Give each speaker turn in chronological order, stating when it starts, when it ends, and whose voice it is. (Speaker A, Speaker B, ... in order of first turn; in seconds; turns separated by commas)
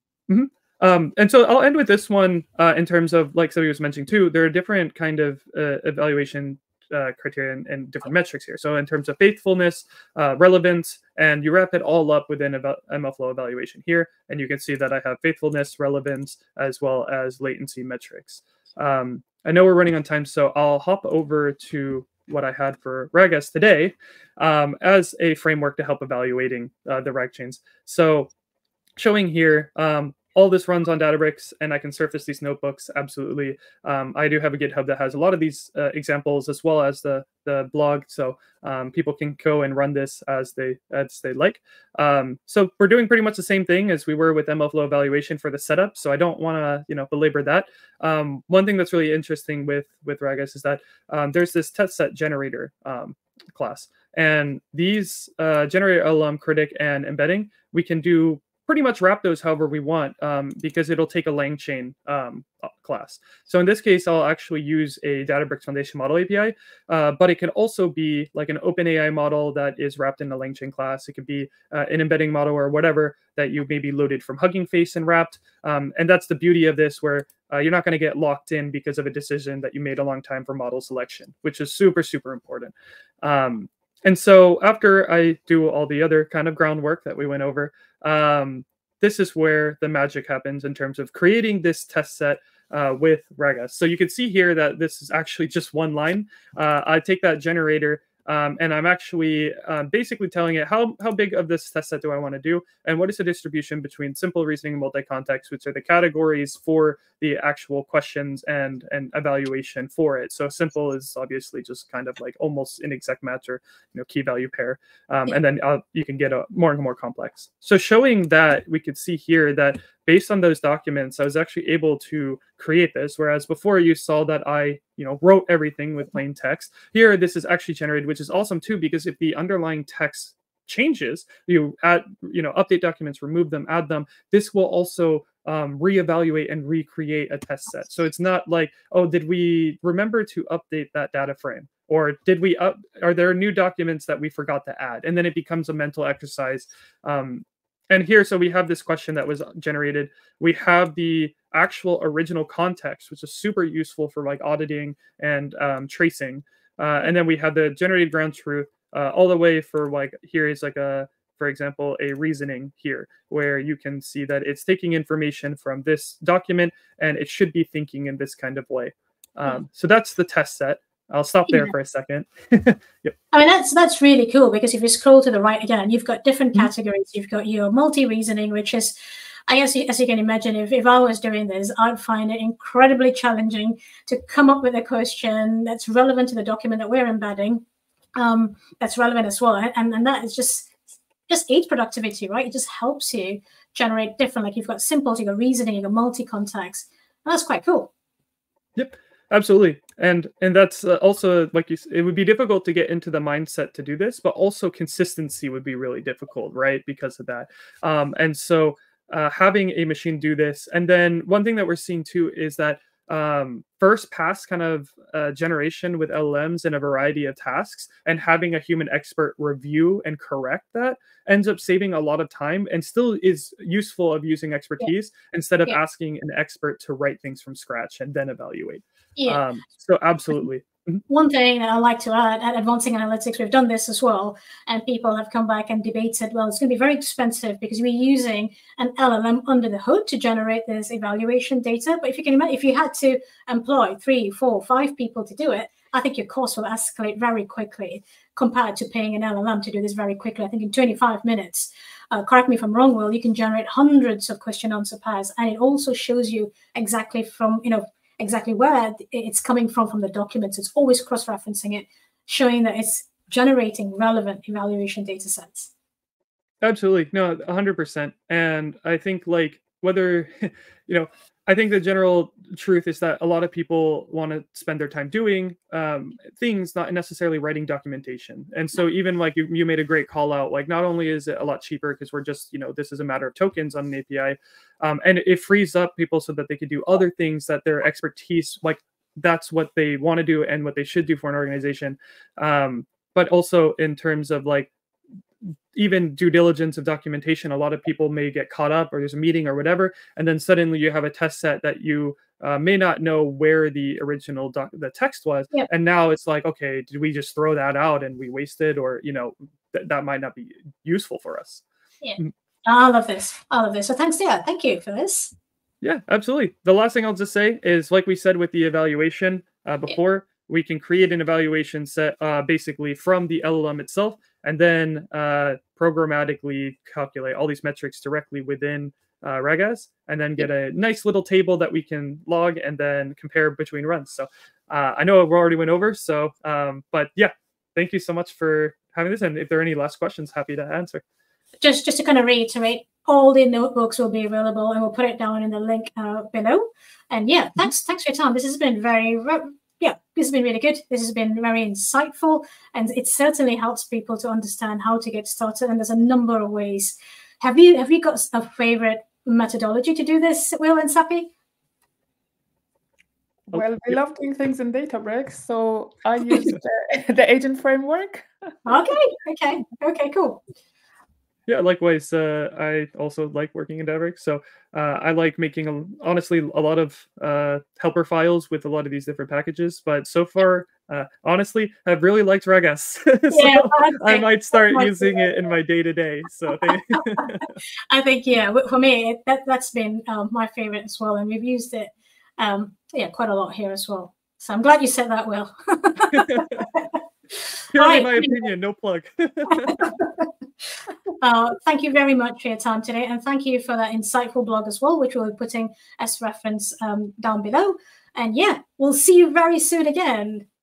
Speaker A: 0.3-28.3, Speaker A: 29.0-173.1, Speaker B: 171.5-171.7, Speaker B: 173.3-178.9, Speaker B: 179.5-187.6, Speaker B: 188.2-190.7, Speaker B: 191.3-197.9, Speaker A: 198.8-231.0, Speaker B: 229.2-229.4, Speaker B: 231.1-265.7, Speaker A: 266.6-294.7, Speaker A: 295.4-311.6, Speaker B: 312.0-315.3, Speaker A: 315.8-341.0, Speaker B: 341.6-361.3, Speaker C: 363.5-368.3, Speaker A: 363.5-363.9, Speaker B: 368.6-370.4, Speaker A: 371.5-387.5, Speaker B: 383.3-385.3, Speaker B: 386.7-397.0, Speaker A: 396.1-396.7, Speaker A: 397.7-399.9, Speaker B: 397.7-398.4, Speaker B: 399.5-400.3, Speaker B: 401.2-410.5